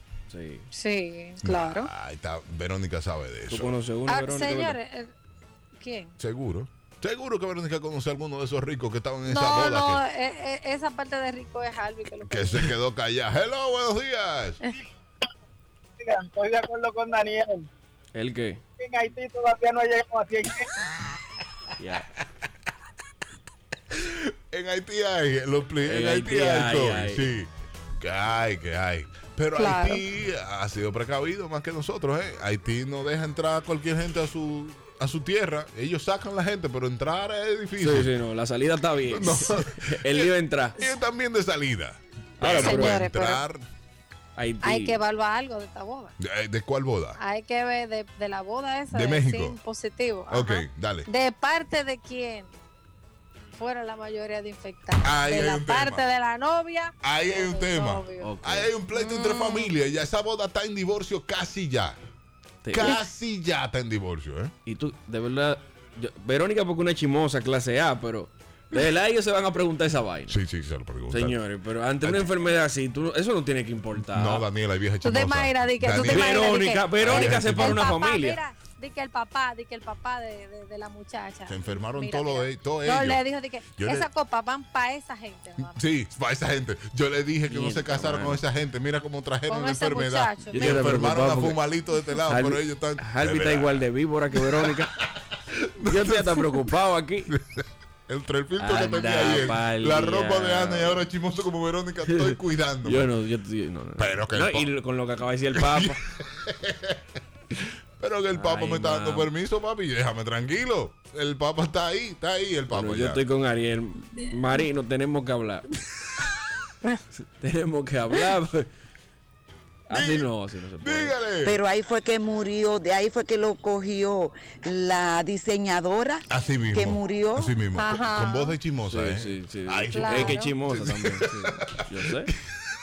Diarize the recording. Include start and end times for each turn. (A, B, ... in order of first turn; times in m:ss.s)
0:00.3-0:00.7 A
0:00.7-0:01.9 B
0:01.4-0:03.8 C
0:03.5-0:04.8 A
0:04.1-0:05.1 B
0:05.8-0:06.1 B
0:06.2-0:10.0 C
0:09.3-0:12.8 B
0:12.2-0:14.6 C
0:16.0-0:17.7 D
0:18.1-0:18.6 A
0:18.8-0:20.7 D
0:21.8-0:22.0 A
0:23.9-0:38.1 C
0:25.8-0:27.3 A
0:29.6-0:30.0 B
0:37.8-0:40.8 A
0:39.1-0:43.6 C
0:42.4-0:43.0 A
0:42.4-0:43.4 B
0:44.4-0:45.0 A
0:44.6-0:46.1 B
0:46.2-0:47.2 C
0:47.2-0:52.5 B
0:48.9-0:49.6 C
0:50.3-0:51.1 C
0:53.5-0:58.3 B
0:55.0-0:56.0 C
0:57.0-1:02.0 C
0:58.2-0:58.7 A
0:58.9-0:59.8 B
1:02.6-1:03.0 A
1:02.7-1:04.5 C
1:04.6-1:10.4 A
1:10.3-1:11.4 C
1:11.1-1:14.5 A
1:12.0-1:12.3 C
1:14.0-1:18.0 C
1:15.0-1:25.8 B
1:16.0-1:18.4 A
1:21.5-1:23.2 C
1:23.7-1:24.1 C
1:25.6-1:36.4 C
1:27.5-1:28.4 A
1:29.5-1:31.1 B
1:30.4-1:31.6 A
1:32.3-1:34.9 A
1:35.8-1:37.3 A
1:37.3-1:43.1 C
1:38.6-1:41.0 A
1:42.0-1:46.0 A
1:44.0-1:44.7 C
1:45.6-1:47.0 C
1:47.6-1:53.2 C
1:48.3-1:49.3 A
1:52.7-1:55.7 A
1:57.2-1:58.7 A
1:59.9-2:01.2 A
1:59.9-2:01.6 C
2:01.4-2:07.6 E
2:06.3-2:12.3 C
2:07.7-2:08.6 B
2:08.8-2:12.3 A
2:09.9-2:10.5 B